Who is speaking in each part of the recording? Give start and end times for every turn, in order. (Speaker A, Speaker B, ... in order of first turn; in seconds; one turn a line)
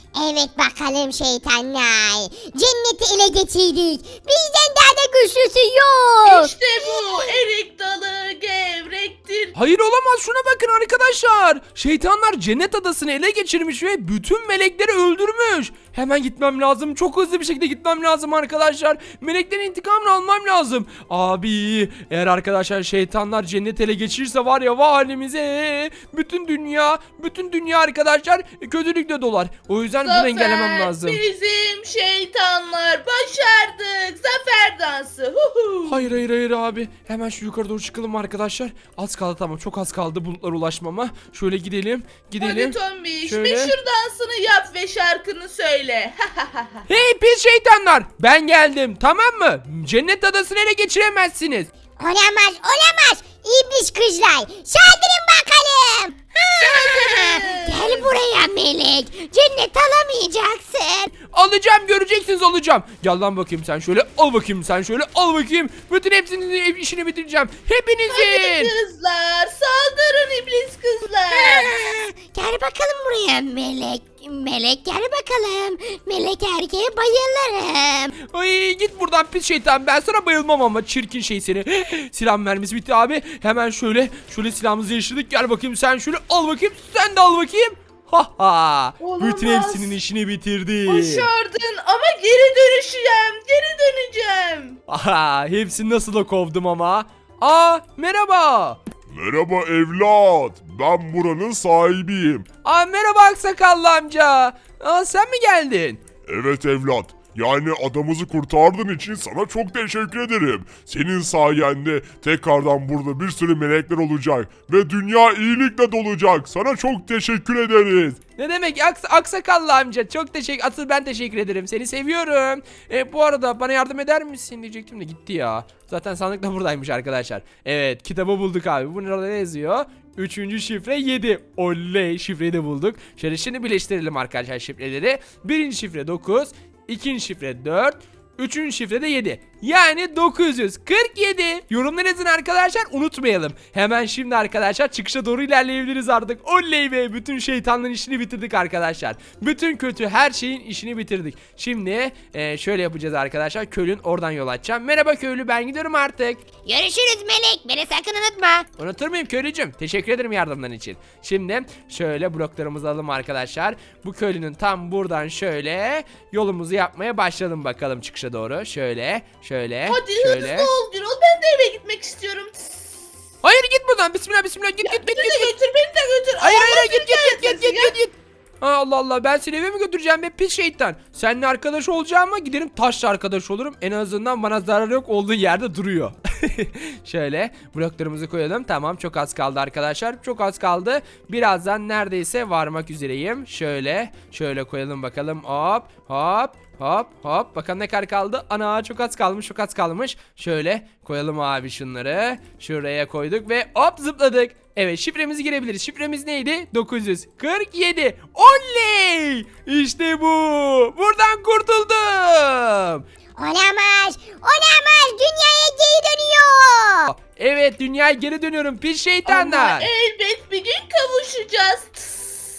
Speaker A: 0.1-7.3
Speaker B: 6.3-9.5
Speaker C: 9.6-31.2
Speaker B: 30.0-36.1
Speaker C: 35.9-43.7
Speaker B: 42.4-46.8
Speaker C: 46.9-51.7
Speaker A: 52.0-61.1
Speaker B: 56.6-58.1
Speaker C: 61.3-68.7
Speaker B: 68.1-71.7
Speaker A: 71.3-78.1
Speaker C: 78.2-91.3
Speaker B: 89.0-89.9
Speaker B: 90.9-94.8
Speaker C: 94.9-98.8
Speaker D: 99.1-102.5
Speaker C: 102.6-106.0
Speaker D: 106.3-118.2
Speaker C: 118.4-156.4
Speaker A: 156.7-158.7
Speaker C: 158.8-170.7
Speaker B: 169.9-172.6
Speaker C: 173.4-175.5
Speaker B: 174.8-177.9
Speaker C: 176.4-213.0
Speaker A: 213.4-217.1
Speaker C: 217.1-219.9
Speaker B: 219.3-222.4